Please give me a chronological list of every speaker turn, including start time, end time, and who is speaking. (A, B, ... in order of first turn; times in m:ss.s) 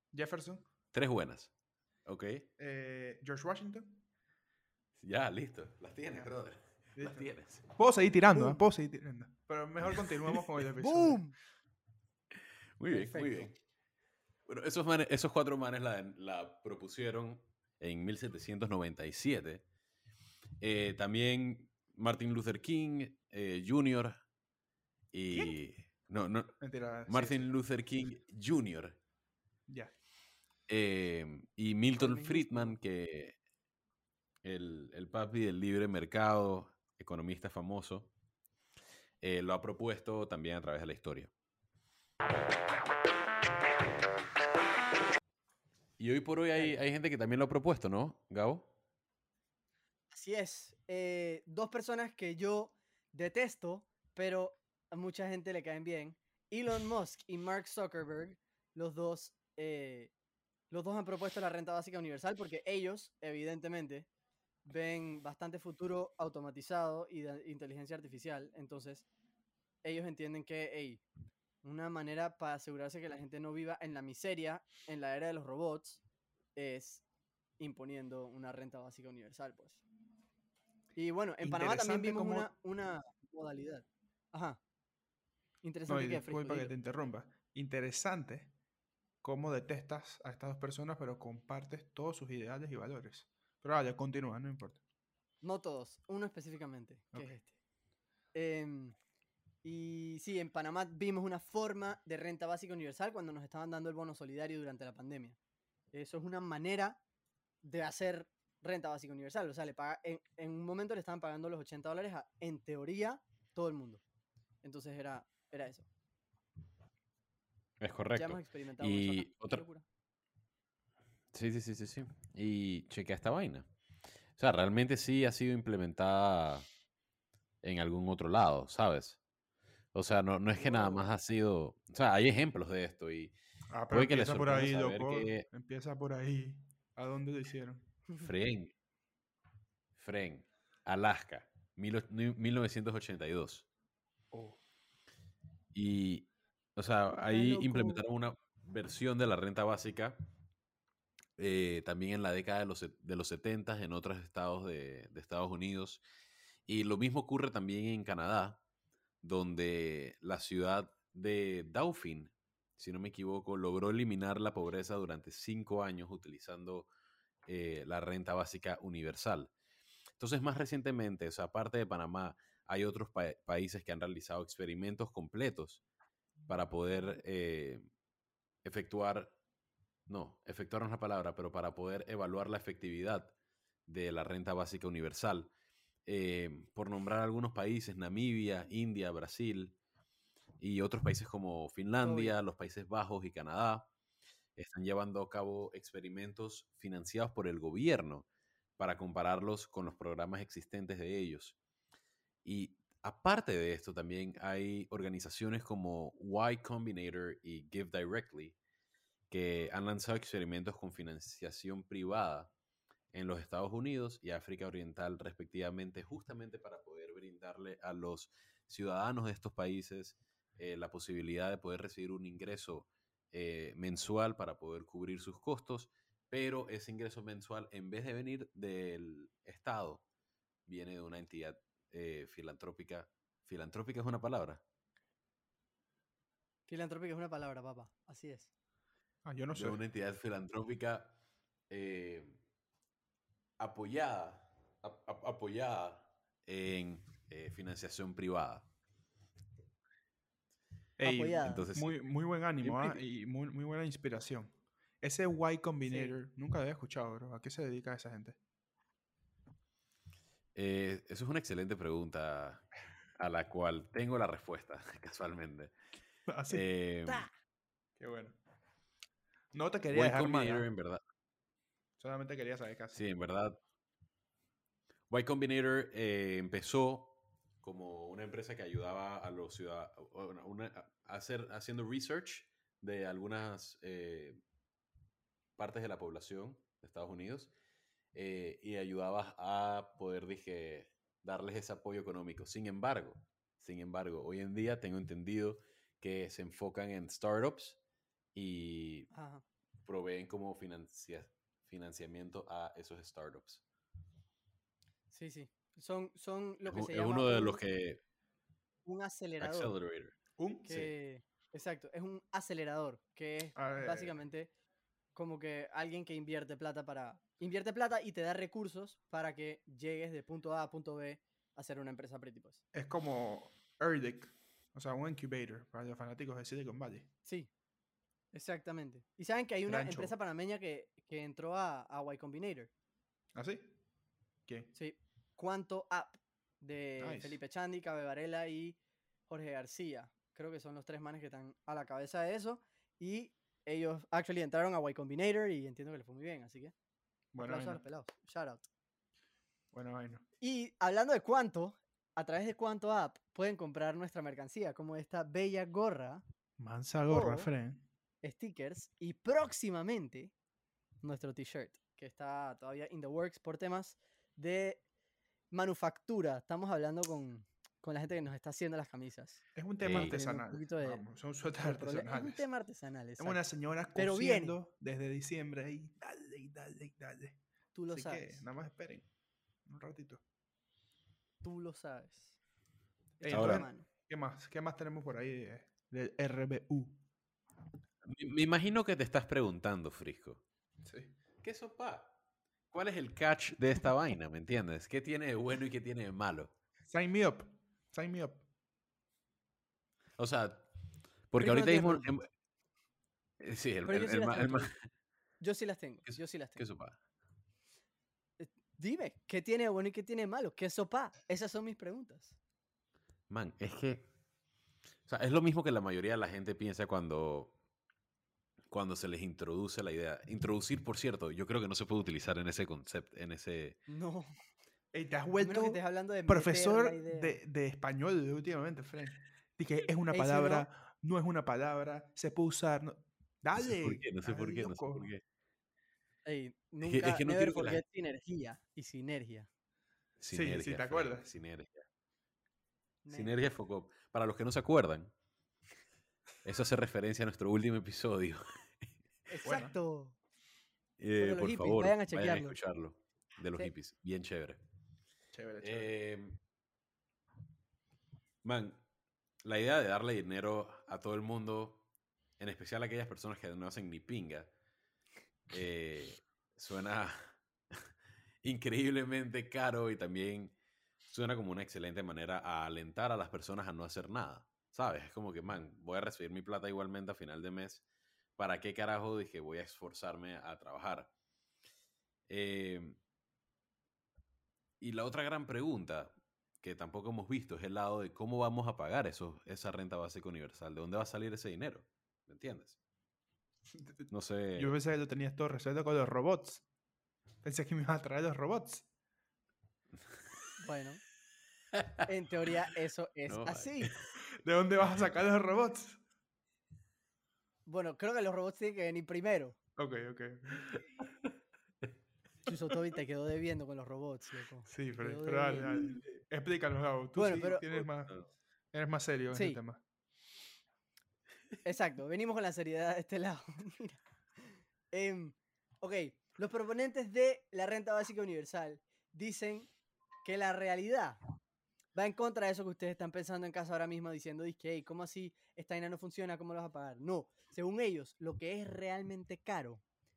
0:00.1-0:00.6 A
0:00.9-0:01.5 B
0:02.0-0:02.5 B
0:02.6-0:04.0 A
0:05.0-0:07.7 B
0:07.0-0:11.2 A
0:08.3-0:08.6 C
0:10.8-0:11.4 C
0:12.8-0:13.5 B
0:12.9-0:13.5 C
0:14.5-0:19.6 B
0:20.6-0:24.2 B
0:25.1-0:26.6 B
0:25.3-0:25.6 A
0:26.6-0:27.5 A
0:27.1-0:29.0 B
0:29.7-0:29.9 A
0:30.7-0:33.4 B
0:32.0-0:32.8 C
0:34.4-0:38.1 B
0:39.2-0:41.3 B
0:46.0-0:48.7 B
0:50.1-1:00.1 C
1:00.7-1:04.1 C
1:04.6-1:09.1 C
1:09.8-1:11.0 C
1:11.6-1:16.0 C
1:16.6-1:17.0 C
1:17.6-1:19.8 C
1:21.0-1:24.6 C
1:21.4-1:22.5 A
1:25.6-1:26.7 C
1:25.9-1:28.5 A
1:29.2-1:34.8 A
1:35.4-1:37.6 C
1:38.3-1:39.0 C
1:39.6-1:45.4 C
1:45.9-1:47.0 C
1:47.6-1:54.0 C
1:54.6-1:55.9 C
1:57.8-1:59.6 B
1:58.2-1:59.8 C
2:01.3-2:03.7 B
2:04.4-2:06.7 B
2:07.6-2:09.2 B
2:09.9-2:13.4 B
2:10.6-2:11.1 A
2:13.7-2:17.9 A
2:13.9-2:15.4 B
2:18.2-2:18.7 B
2:20.0-2:23.7 B
2:24.3-2:24.6 A
2:25.7-2:30.2 B
2:27.3-2:28.0 C
2:31.4-2:36.0 B
2:36.7-2:38.6 B
2:39.2-2:46.9 B
2:47.5-2:49.5 B
2:50.2-2:55.8 B
2:56.5-2:57.9 B
2:58.6-2:59.3 B
3:00.1-3:03.3 B
3:03.9-3:05.5 B
3:06.1-3:09.8 B
3:10.6-3:13.9 B
3:12.0-3:12.4 C
3:14.6-3:18.3 B
3:18.8-3:21.6 B
3:22.4-3:28.6 B
3:29.3-3:32.5 B
3:33.1-3:50.0 B
3:50.7-3:54.6 B
3:56.7-3:58.5 C
3:59.2-3:59.8 A
3:59.6-4:01.2 B
4:01.7-4:02.4 B
4:03.6-4:08.7 B
4:11.0-4:18.4 A
4:11.0-4:11.7 C
4:11.3-4:12.0 B
4:12.6-4:13.0 B
4:15.9-4:16.1 C
4:20.6-4:25.7 B
4:26.3-4:27.2 A
4:26.5-4:27.3 B
4:28.0-4:28.4 A
4:29.5-4:30.7 A
4:29.9-4:31.0 B
4:32.0-4:33.0 A
4:32.9-4:33.6 B
4:35.1-4:44.4 B
4:45.6-4:47.5 B
4:48.1-4:57.8 B
4:58.4-4:59.1 B
4:59.1-4:59.4 C
4:59.8-5:03.6 B
5:05.1-5:07.6 C
5:06.7-5:08.0 B
5:08.8-5:09.7 C
5:09.4-5:10.2 B
5:10.4-5:10.7 A
5:10.6-5:14.5 C
5:13.6-5:14.2 A
5:15.2-5:22.6 C
5:22.7-5:27.1 A
5:27.2-5:27.5 C
5:28.3-5:32.7 C
5:29.7-5:30.1 A
5:33.4-5:33.8 A
5:34.8-5:46.7 C
5:37.0-5:37.4 A
5:47.3-5:47.8 A
5:47.4-5:48.7 C
5:49.7-5:50.2 A
5:50.4-5:56.2 C
5:56.6-5:57.8 A
5:57.1-5:57.5 C
5:58.2-6:00.3 C
6:01.0-6:04.8 C
6:05.5-6:11.0 C
6:09.6-6:12.4 A
6:09.8-6:10.2 B
6:11.6-6:13.4 C
6:13.2-6:17.4 A
6:13.9-6:14.6 C
6:17.7-6:18.4 C
6:17.9-6:19.1 A
6:19.7-6:20.2 A
6:21.4-6:22.4 C
6:23.2-6:23.9 C
6:23.2-6:27.0 A
6:23.3-6:23.7 B
6:28.0-6:30.4 B
6:30.8-6:31.1 A
6:31.4-6:32.1 B
6:32.7-6:36.5 B
6:36.9-6:38.4 A
6:40.2-6:40.7 B
6:41.3-6:42.3 B
6:41.4-6:42.1 C
6:43.4-6:44.7 B
6:43.9-6:44.7 C
6:45.4-6:46.6 C
6:46.1-6:47.0 B
6:48.4-6:52.4 C
6:53.3-6:54.1 B
6:55.1-6:57.6 B
6:58.7-7:03.8 B
7:03.9-7:04.3 C
7:04.9-7:15.1 A
7:05.4-7:07.4 C
7:10.1-7:10.7 C
7:13.6-7:15.2 B
7:16.2-7:19.5 C
7:16.8-7:17.8 B
7:20.2-7:21.9 B
7:20.3-7:21.3 A
7:23.0-7:23.5 C
7:23.1-7:25.1 B
7:26.4-7:28.7 B
7:29.3-7:30.2 C
7:29.4-7:29.7 A
7:31.0-7:34.6 B
7:31.2-7:32.6 C
7:35.3-7:35.9 A
7:35.6-7:36.4 B
7:38.4-7:38.8 B
7:39.4-7:41.8 B
7:42.4-7:44.5 B
7:45.5-7:47.8 B
7:48.4-7:50.5 B
7:51.1-7:57.8 B
7:58.4-8:01.1 B
8:02.3-8:03.0 B
8:04.8-8:12.8 B
8:13.7-8:16.6 A
8:14.1-8:14.8 B
8:17.4-8:18.9 A
8:20.6-8:21.0 C
8:21.8-8:22.0 B
8:22.1-8:23.9 C
8:23.3-8:24.0 B
8:24.4-8:26.0 A
8:27.7-8:29.6 C
8:29.8-8:30.8 A
8:32.5-8:36.0 C
8:34.7-8:38.2 A
8:37.2-8:37.8 C
8:38.7-8:39.8 A
8:39.3-8:39.6 C
8:41.6-8:49.7 C
8:50.2-8:51.2 C
8:51.9-8:59.8 C